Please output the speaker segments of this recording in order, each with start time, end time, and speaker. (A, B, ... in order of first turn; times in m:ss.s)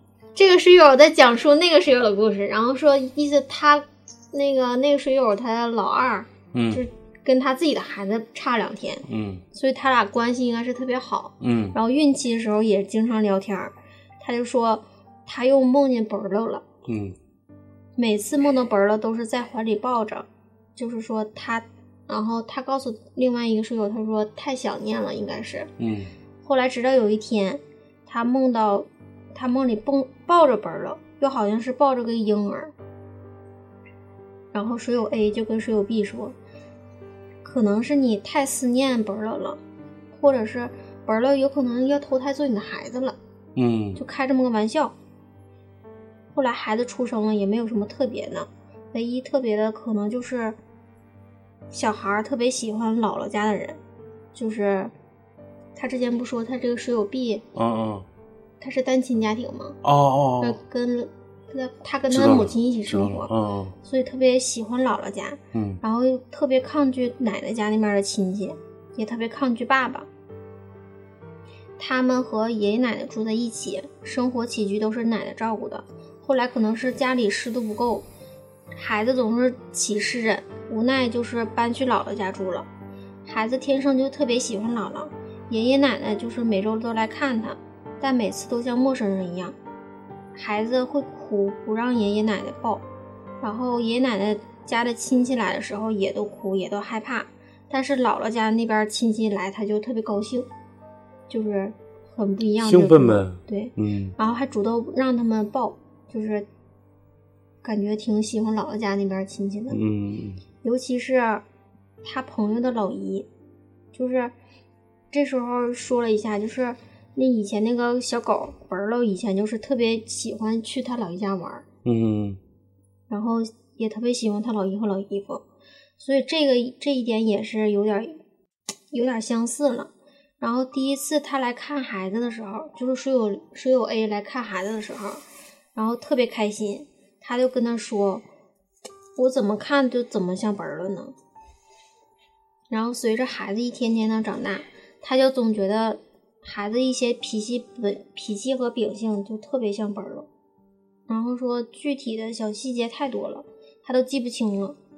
0:00.4-0:16.6 A
0:06.5-0:06.8 B
0:09.1-0:09.4 B
0:11.4-0:11.8 B
0:16.8-0:17.2 B
0:18.0-0:25.7 A
0:25.8-0:26.1 B
0:26.4-0:32.7 A
0:34.5-0:36.4 A
0:37.4-0:39.6 A
0:40.1-0:43.2 A
0:43.6-0:44.0 B
0:44.0-0:44.9 A
0:46.3-0:50.6 A
0:51.7-0:53.8 A
0:54.3-0:54.9 A
0:55.8-0:57.4 A
0:57.5-0:58.1 B
0:58.6-0:59.8 A
0:59.8-1:00.6 B
1:00.4-1:03.3 A
1:02.1-1:03.8 B
1:03.8-1:10.1 A
1:05.5-1:05.8 B
1:11.8-1:18.0 A
1:18.8-1:22.7 A
1:23.3-1:29.6 A
1:30.4-1:32.8 A
1:33.4-1:40.5 A
1:41.3-1:46.5 A
1:42.6-1:44.2 B
1:47.6-1:49.8 A
1:49.7-1:50.4 B
1:50.6-1:51.4 A
1:52.0-1:53.3 A
1:53.9-1:54.3 A
1:55.1-2:01.6 A
2:01.8-2:02.4 B
2:03.1-2:05.4 A
2:06.0-2:08.2 A
2:08.9-2:15.2 A
2:15.8-2:18.2 A
2:19.2-2:21.1 A
2:22.7-2:30.3 A
2:31.1-2:34.8 A